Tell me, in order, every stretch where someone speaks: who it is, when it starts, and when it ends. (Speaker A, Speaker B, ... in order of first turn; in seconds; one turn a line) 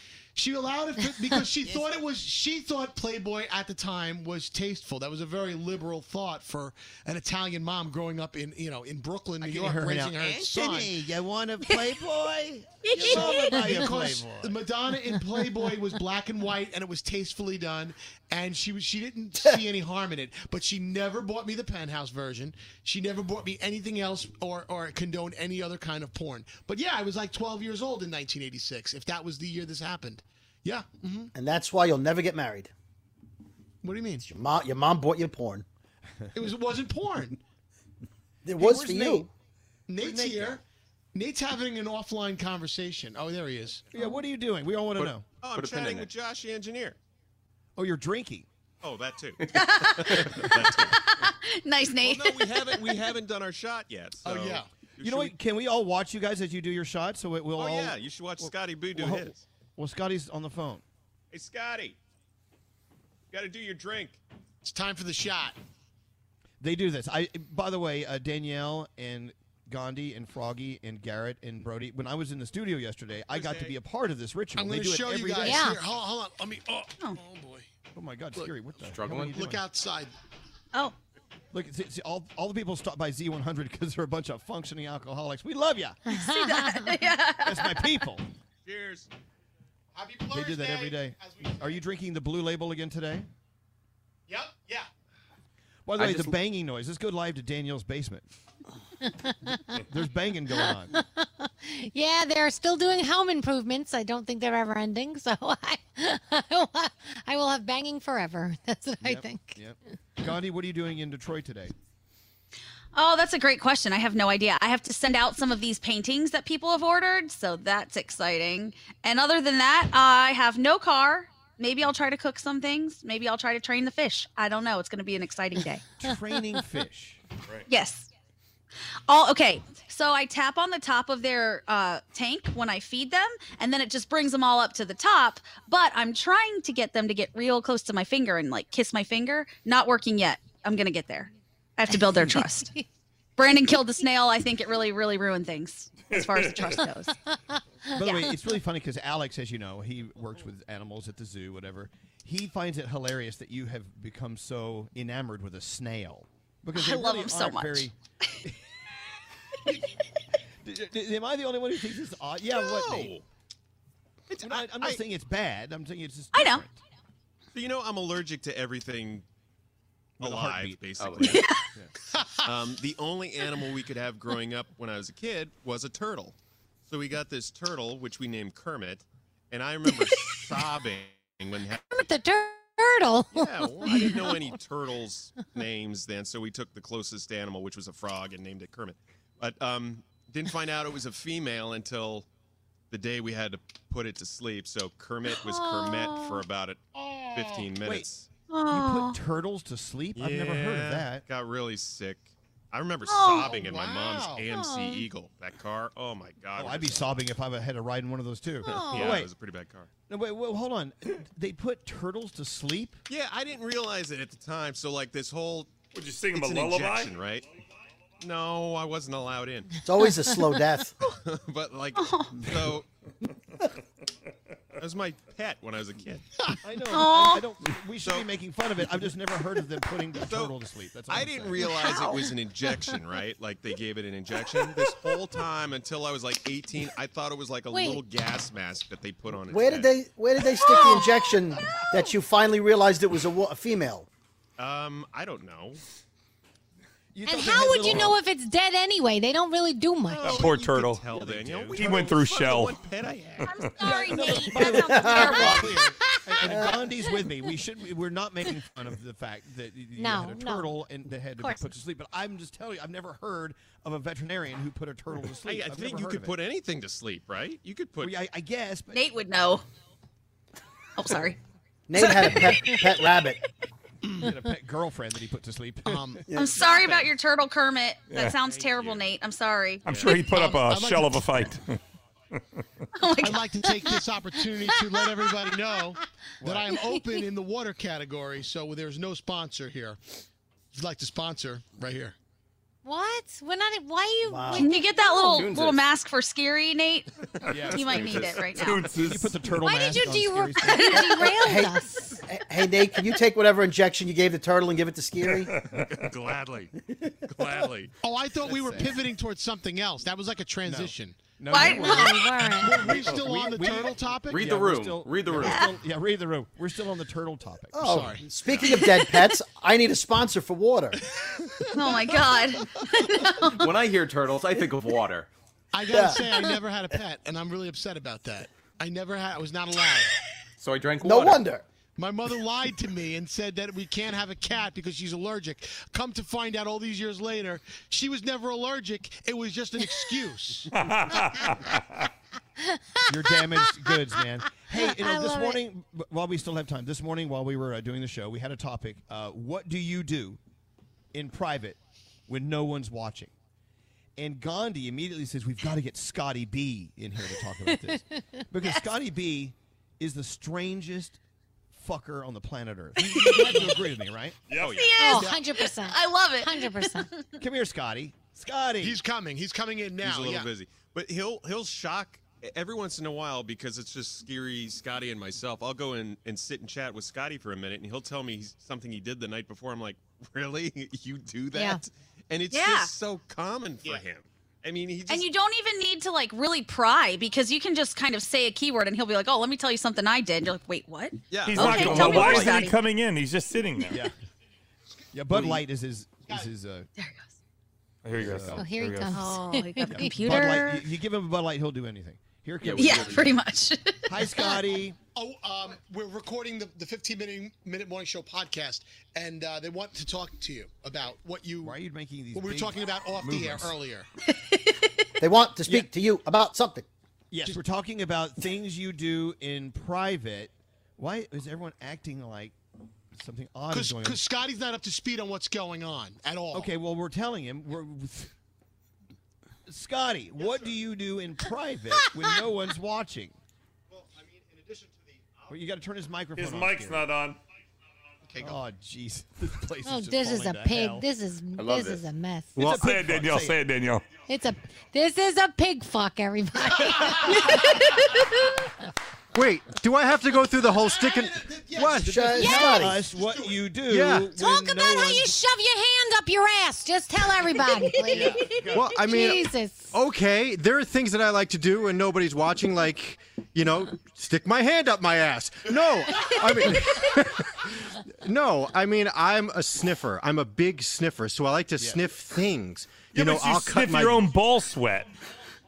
Speaker A: 0.4-11.0
Speaker B: 9.4-14.6
Speaker C: 12.8-13.7
Speaker A: 13.0-31.3
Speaker D: 31.3-32.7
Speaker A: 33.8-34.2
Speaker D: 34.2-35.6
Speaker A: 36.3-37.4
Speaker D: 38.4-39.3
Speaker B: 38.6-39.3
Speaker A: 39.9-40.6
Speaker B: 40.0-40.6
Speaker A: 41.1-43.8
Speaker B: 43.9-45.2
Speaker E: 45.0-47.0
Speaker F: 45.5-46.1
Speaker B: 47.8-48.5
Speaker E: 48.8-49.4
Speaker F: 49.5-50.5
Speaker C: 49.5-52.9
Speaker E: 50.0-51.0
Speaker E: 52.0-55.4
Speaker A: 54.2-54.7
Speaker B: 55.0-60.8
Speaker E: 57.6-59.4
Speaker E: 61.3-62.0
Speaker E: 63.3-64.2
Speaker A: 64.6-65.6
Speaker B: 66.6-75.7
Speaker E: 73.3-73.8
Speaker A: 74.6-77.7
Speaker G: 75.4-75.8
Speaker B: 77.9-79.6
Speaker A: 78.4-78.8
Speaker F: 78.8-79.5
Speaker A: 79.3-80.1
Speaker B: 81.5-86.0
Speaker C: 86.1-88.0
Speaker G: 86.1-86.8
Speaker B: 87.4-88.3
Speaker E: 88.7-89.1
Speaker A: 90.0-91.8
Speaker B: 90.3-93.3
Speaker A: 94.3-94.9
Speaker B: 95.9-98.3
Speaker F: 96.0-96.4
Speaker G: 99.0-99.6
Speaker B: 99.8-101.0
Speaker G: 100.5-109.6
Speaker B: 109.0-111.7
Speaker C: 113.0-125.9
Speaker B: 126.0-127.2
Speaker C: 127.7-128.1
Speaker C: 129.1-142.7
Speaker C: 143.4-147.2
Speaker H: 146.1-146.9
Speaker B: 147.9-157.9
Speaker C: 156.8-157.9
Speaker B: 160.6-163.2
Speaker E: 162.5-163.2
Speaker E: 164.3-165.0
Speaker B: 164.4-166.8
Speaker C: 166.3-166.6
Speaker E: 167.5-169.3
Speaker E: 170.2-171.1
Speaker B: 170.2-171.9
Speaker F: 171.0-171.5
Speaker C: 171.2-171.6
Speaker E: 172.4-176.4
Speaker E: 176.9-181.8
Speaker G: 181.9-184.6
Speaker E: 183.3-192.3
Speaker E: 192.9-198.3
Speaker G: 195.5-196.4
Speaker A: 197.0-197.7
Speaker B: 197.8-198.1
Speaker C: 198.5-199.2
Speaker B: 198.7-201.2
Speaker E: 200.2-207.3
Speaker C: 203.1-203.5
Speaker A: 203.3-204.5
Speaker G: 204.5-205.0
Speaker B: 206.6-209.3
Speaker G: 208.7-209.2
Speaker E: 208.7-209.9
Speaker B: 210.1-213.0
Speaker E: 213.1-215.8
Speaker H: 215.9-217.3
Speaker E: 216.3-217.4
Speaker E: 218.2-219.8
Speaker D: 219.8-220.9
Speaker E: 221.0-222.9
Speaker C: 221.9-222.5
Speaker E: 224.8-226.3
Speaker B: 226.6-232.2
Speaker C: 226.9-227.4
Speaker E: 228.0-228.3
Speaker E: 230.2-230.6
Speaker E: 231.1-240.0
Speaker G: 232.0-232.2
Speaker G: 237.7-238.0
Speaker D: 239.5-244.1
Speaker E: 244.6-245.8
Speaker B: 247.1-248.2
Speaker G: 247.3-250.6
Speaker E: 250.1-253.5
Speaker H: 250.2-251.1
Speaker B: 251.1-251.8
Speaker H: 251.7-252.9
Speaker C: 253.4-255.8
Speaker H: 253.4-254.5
Speaker B: 253.8-266.4
Speaker D: 254.6-255.8
Speaker D: 256.4-256.8
Speaker G: 260.0-260.8
Speaker G: 261.4-261.7
Speaker E: 265.4-268.2
Speaker B: 268.0-269.1
Speaker C: 268.9-269.6
Speaker C: 271.0-271.4
Speaker D: 271.9-273.4
Speaker C: 272.0-272.9
Speaker B: 274.2-276.2
Speaker A: 275.9-277.0
Speaker D: 276.3-276.7
Speaker C: 276.3-279.9
Speaker H: 278.1-278.4
Speaker E: 278.4-279.1
Speaker H: 279.9-281.8
Speaker E: 279.9-280.1
Speaker A: 280.1-281.5
Speaker C: 283.0-284.0
Speaker A: 283.2-290.0
Speaker B: 286.4-286.7
Speaker A: 290.8-292.1
Speaker G: 292.9-295.4
Speaker D: 294.3-294.7
Speaker C: 294.6-298.8
Speaker F: 295.3-295.9
Speaker B: 297.5-301.3
Speaker E: 297.5-298.5
Speaker F: 298.0-298.4
Speaker H: 298.5-299.4
Speaker G: 299.6-302.2
Speaker D: 301.1-305.5
Speaker H: 305.4-306.1
Speaker E: 306.0-307.9
Speaker A: 308.0-311.8
Speaker B: 308.5-309.0
Speaker B: 310.6-312.2
Speaker C: 311.5-312.4
Speaker G: 311.9-312.8
Speaker A: 312.5-314.4
Speaker B: 312.8-318.1
Speaker F: 314.2-315.6
Speaker C: 315.4-315.7
Speaker D: 317.7-321.0
Speaker A: 317.8-318.4
Speaker C: 318.7-319.1
Speaker C: 321.7-323.7
Speaker F: 323.4-325.3
Speaker A: 325.7-330.1
Speaker D: 325.9-326.3
Speaker F: 330.6-331.5
Speaker D: 331.0-331.6
Speaker A: 332.0-340.7
Speaker H: 340.8-341.8
Speaker B: 343.1-350.4
Speaker G: 344.7-345.6
Speaker B: 351.1-353.3
Speaker B: 354.2-361.2
Speaker B: 361.7-364.4
Speaker C: 363.0-363.8
Speaker G: 363.3-363.6
Speaker H: 364.5-364.9
Speaker E: 364.6-365.3
Speaker C: 364.7-367.2
Speaker G: 365.0-367.1
Speaker B: 367.4-369.0
Speaker A: 368.8-370.5
Speaker E: 370.0-385.3
Speaker G: 381.5-381.8
Speaker C: 382.5-382.9
Speaker C: 385.1-392.8
Speaker E: 391.3-391.7
Speaker H: 391.4-394.0
Speaker F: 391.7-392.7
Speaker B: 395.1-396.9
Speaker E: 395.3-395.6
Speaker C: 397.0-397.2
Speaker H: 398.0-399.2
Speaker B: 398.2-398.7
Speaker G: 398.5-400.6
Speaker C: 399.1-400.9
Speaker B: 399.9-403.4
Speaker F: 402.6-403.4
Speaker C: 402.7-404.6
Speaker B: 404.1-405.0
Speaker A: 405.1-411.8
Speaker B: 411.6-413.8
Speaker A: 412.3-414.1
Speaker C: 414.4-414.9
Speaker D: 415.2-416.9
Speaker B: 417.3-422.6
Speaker B: 423.1-424.2
Speaker A: 423.7-426.7
Speaker B: 426.5-428.3
Speaker B: 429.7-433.4
Speaker I: 434.2-434.8
Speaker E: 434.6-434.9
Speaker B: 435.5-437.1
Speaker H: 436.4-437.4
Speaker E: 438.3-438.6
Speaker B: 438.4-441.1
Speaker G: 439.9-442.5
Speaker F: 441.6-442.1
Speaker I: 442.6-442.9
Speaker B: 442.6-443.6
Speaker H: 442.8-444.1
Speaker G: 444.3-447.4
Speaker I: 449.4-452.1
Speaker A: 450.6-453.6
Speaker D: 452.1-453.0
Speaker B: 452.2-455.3
Speaker G: 452.4-452.7
Speaker I: 453.9-454.3
Speaker G: 454.3-459.9
Speaker B: 458.1-458.9
Speaker I: 458.7-467.6
Speaker I: 468.2-474.3
Speaker B: 471.8-472.1
Speaker H: 473.1-475.1